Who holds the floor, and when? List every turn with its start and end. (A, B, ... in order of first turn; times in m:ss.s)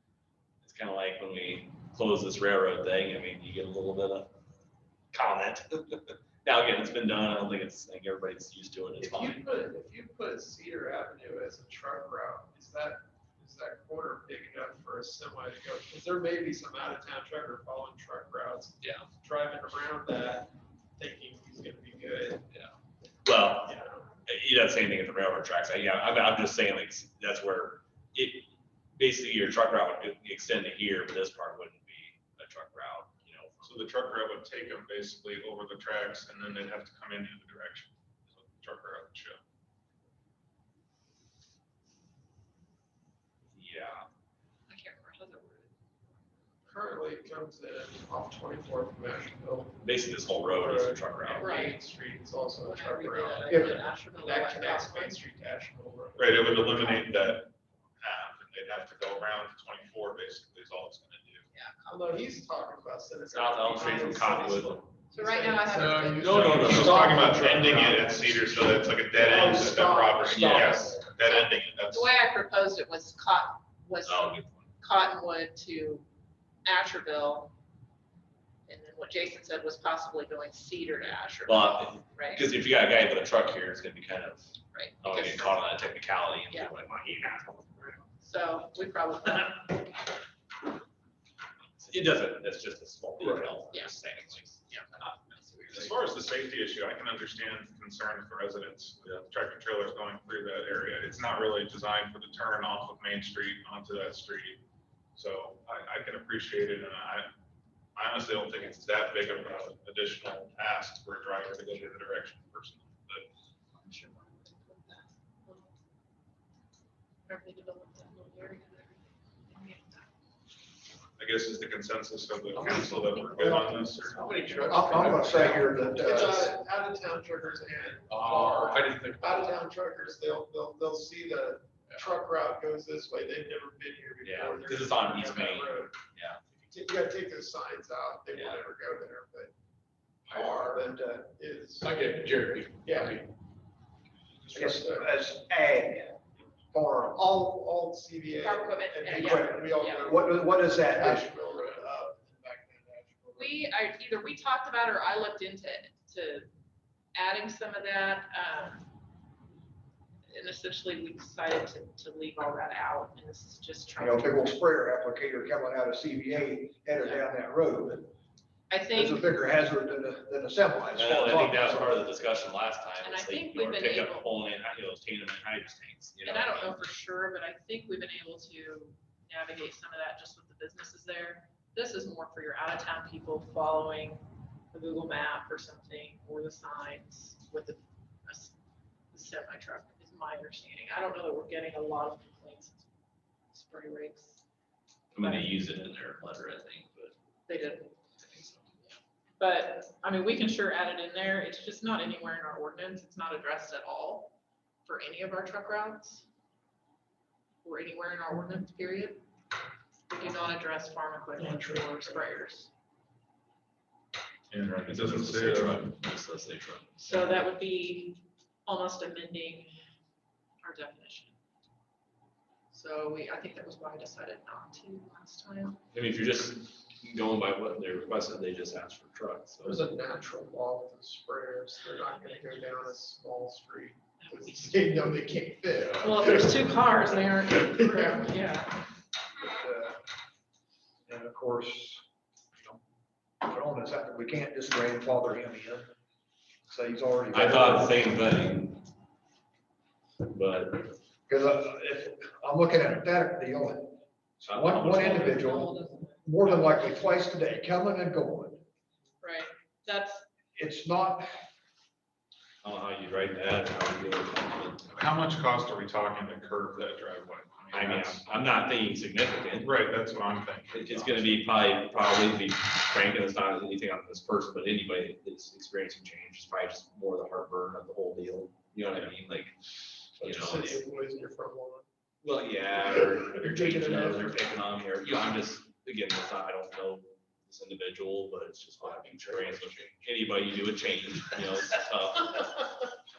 0:00.6-0:04.3 A
0:05.1-0:09.4 A
0:09.0-0:22.5 B
0:18.8-0:19.1 A
0:22.5-0:33.9 A
0:23.6-0:24.0 B
0:33.6-0:39.4 C
0:43.5-0:44.1 A
0:44.7-0:45.7 D
0:46.6-0:49.8 B
0:49.8-0:51.6 A
0:50.3-0:57.0 B
0:51.4-0:51.8 D
0:52.6-0:55.2 D
0:53.5-0:53.8 E
0:56.2-1:01.5 C
1:01.5-1:01.8 D
1:01.8-1:08.5 B
1:03.3-1:04.8 A
1:05.1-1:07.1 D
1:05.8-1:06.6 F
1:06.2-1:07.3 A
1:06.6-1:12.1 C
1:09.1-1:11.1 B
1:10.3-1:10.8 A
1:11.2-1:16.0 D
1:14.0-1:14.7 A
1:16.6-1:17.5 D
1:18.6-1:22.5 D
1:21.4-1:24.5 A
1:24.7-1:25.7 D
1:25.0-1:28.0 A
1:28.2-1:30.0 D
1:31.8-1:34.8 A
1:33.7-1:34.0 D
1:35.7-1:44.6 C
1:45.1-1:47.3 C
1:48.0-1:53.3 C
1:53.7-1:55.7 D
1:57.3-2:00.1 D
2:01.2-2:04.4 C
2:02.5-2:05.4 D
2:03.4-2:03.9 E
2:04.1-2:15.9 B
2:04.3-2:05.3 F
2:04.7-2:06.6 E
2:08.4-2:09.5 F
2:14.2-2:16.4 A
2:16.5-2:19.5 B
2:18.3-2:18.6 A
2:20.2-2:22.0 B
2:20.3-2:20.9 E
2:21.8-2:23.2 F
2:22.8-2:23.3 B
2:24.5-2:25.1 B
2:24.5-2:26.2 E
2:26.7-2:27.6 E
2:27.4-2:33.6 B
2:28.4-2:30.1 D
2:29.1-2:31.3 E
2:33.4-2:36.5 D
2:37.1-2:38.9 D
2:40.3-2:44.5 D
2:44.0-2:48.1 E
2:48.7-2:49.4 D
2:48.9-2:52.0 E
2:50.9-2:56.8 A
2:53.0-2:54.3 D
2:56.2-3:08.5 D
3:09.1-3:12.9 D
3:13.5-3:14.4 D
3:15.1-3:17.1 A
3:15.2-3:15.5 D
3:17.5-3:17.9 D
3:18.2-3:18.7 A
3:18.9-3:26.2 D
3:27.6-3:29.2 D
3:30.1-3:32.7 D
3:31.4-3:32.2 B
3:34.5-3:35.8 C
3:34.9-3:37.4 A
3:37.0-3:39.8 D
3:40.6-3:41.4 D
3:42.7-3:45.8 D
3:45.9-3:49.8 A
3:49.6-3:56.7 B
3:52.0-3:52.8 D
3:54.2-3:55.1 D
3:56.0-3:58.8 D
3:57.5-3:58.2 B
3:59.4-4:00.0 E
4:01.1-4:02.8 E
4:03.4-4:05.9 E
4:06.7-4:08.0 E
4:07.3-4:08.8 A
4:10.2-4:10.9 A
4:11.3-4:18.6 E
4:14.4-4:15.4 A
4:15.0-4:16.8 D
4:19.2-4:20.2 D
4:20.6-4:21.4 E
4:22.6-4:25.0 A
4:24.9-4:28.2 C
4:27.7-4:29.7 A
4:29.6-4:31.4 C
4:30.7-4:39.5 A
4:40.1-4:40.8 A
4:40.2-4:41.9 B
4:42.2-4:52.6 A
4:43.2-4:44.4 B
4:48.8-4:50.0 B